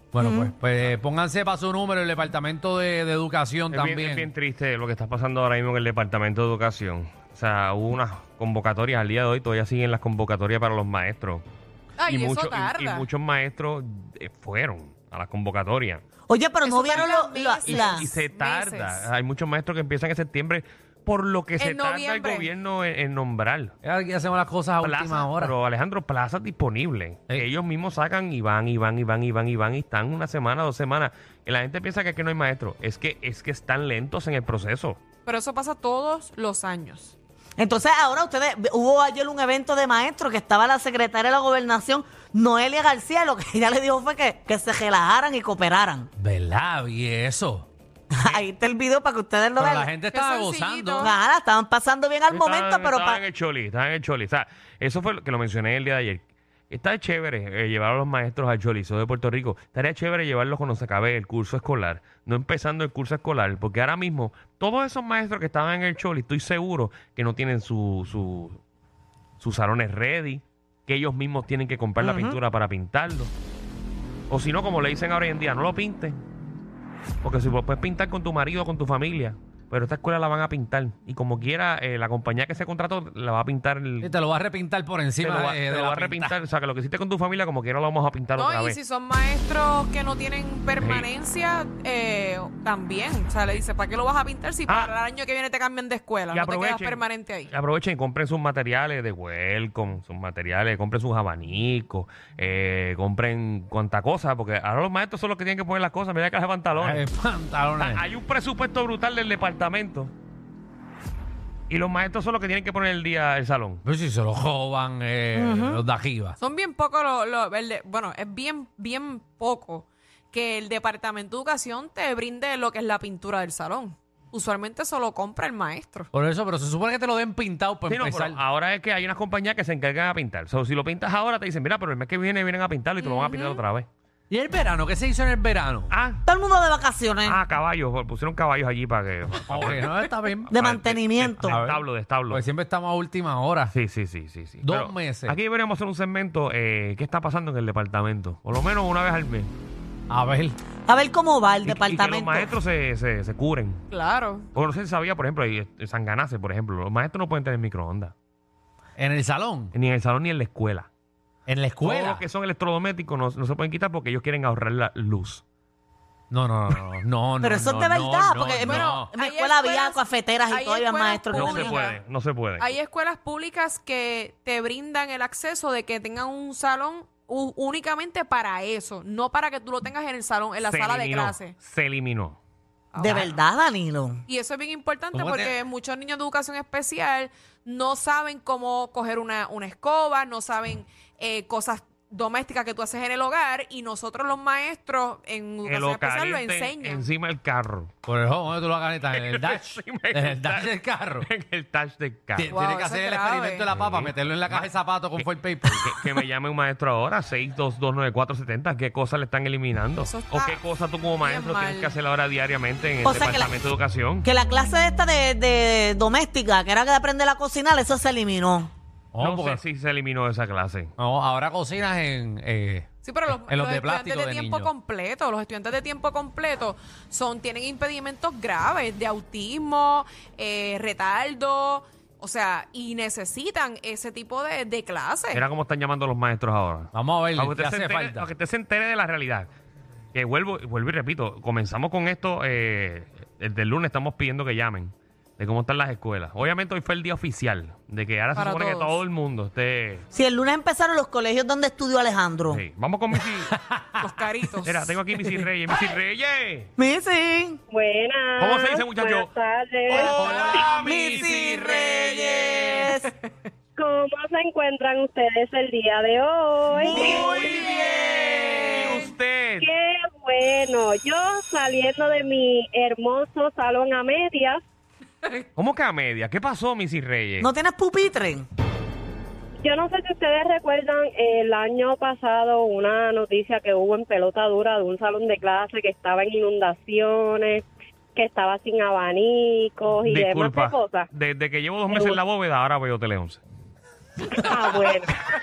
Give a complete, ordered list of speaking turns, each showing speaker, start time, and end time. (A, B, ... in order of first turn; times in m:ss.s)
0:00.1-0:04.3 A
0:00.2-0:00.5 B
0:03.7-0:11.4 C
0:12.0-0:13.0 D
0:12.1-0:16.0 C
0:16.3-0:18.0 B
0:16.6-0:19.1 D
0:17.7-0:23.7 C
0:21.6-0:22.5 D
0:23.8-0:25.5 A
0:24.8-0:35.0 C
0:35.2-0:37.1 D
0:37.6-0:46.1 B
0:46.2-0:47.7 A
0:48.1-0:49.9 B
0:49.6-0:51.1 A
0:50.1-0:51.1 D
0:51.0-0:53.2 B
0:52.3-1:08.6 C
1:09.4-1:13.3 C
1:12.0-1:12.4 B
1:14.3-1:16.2 C
1:17.2-1:24.1 C
1:24.0-1:26.4 A
1:25.2-1:28.8 C
1:28.4-1:37.5 D
1:30.8-1:31.1 C
1:36.3-1:47.0 C
1:46.8-1:48.0 A
1:47.8-1:50.1 C
1:51.7-1:53.8 C
1:53.8-1:56.4 A
1:55.3-1:55.8 B
1:56.4-2:06.1 D
2:06.1-2:08.4 A
2:07.9-2:13.9 C
2:13.0-2:13.6 D
2:14.3-2:15.9 A
2:15.9-2:16.2 C
2:16.2-2:17.4 B
2:17.2-2:19.9 C
2:19.5-2:20.5 A
2:20.5-2:22.4 C
2:20.5-2:21.6 B
2:21.4-2:23.7 A
2:23.7-2:29.5 C
2:24.6-2:25.4 A
2:30.1-2:30.6 A
2:30.9-2:32.5 B
2:31.6-2:33.8 C
2:33.9-2:34.5 D
2:34.5-2:38.1 C
2:39.0-2:39.7 A
2:39.7-2:40.9 C
2:41.5-2:42.2 A
2:41.8-2:45.4 C
2:46.3-2:49.1 A
2:47.4-2:51.8 B
2:48.6-2:52.0 D
2:51.3-2:52.7 C
2:52.6-3:01.6 D
3:00.6-3:02.4 C
3:02.9-3:03.3 D
3:03.0-3:04.2 B
3:04.3-3:17.1 D
3:05.1-3:05.5 A
3:15.6-3:17.9 C
3:18.0-3:21.3 A
3:19.1-3:22.5 C
3:22.3-3:26.2 A
3:22.5-3:23.6 D
3:23.7-3:34.2 C
3:30.0-3:30.6 D
3:31.2-3:32.0 D
3:33.0-3:33.5 B
3:34.2-3:38.7 B
3:39.1-3:39.6 A
3:39.2-3:40.9 C
3:41.0-3:44.7 A
3:43.0-3:55.4 D
3:55.3-3:59.5 C
3:56.9-3:58.3 A
4:00.1-4:10.0 C
4:08.3-4:09.0 D
4:10.1-4:12.6 B
4:12.5-4:13.5 C
4:13.2-4:14.1 A
4:14.0-4:14.9 D
4:14.6-4:16.7 C
4:15.2-4:15.5 A
4:16.8-4:17.6 B
4:17.7-4:20.1 E
4:18.4-4:19.3 C
4:19.9-4:22.8 C
4:19.9-4:22.8 A
4:20.8-4:23.1 B
4:23.8-4:27.6 E
4:26.8-4:29.7 C
4:26.9-4:28.7 B
4:27.0-4:29.1 D
4:29.6-4:34.6 E
4:35.6-4:37.5 C
4:37.4-4:38.4 B
4:39.6-4:47.6 E
4:48.1-4:51.1 E
4:50.0-4:53.4 C
4:51.9-4:52.2 E
4:54.3-4:55.2 E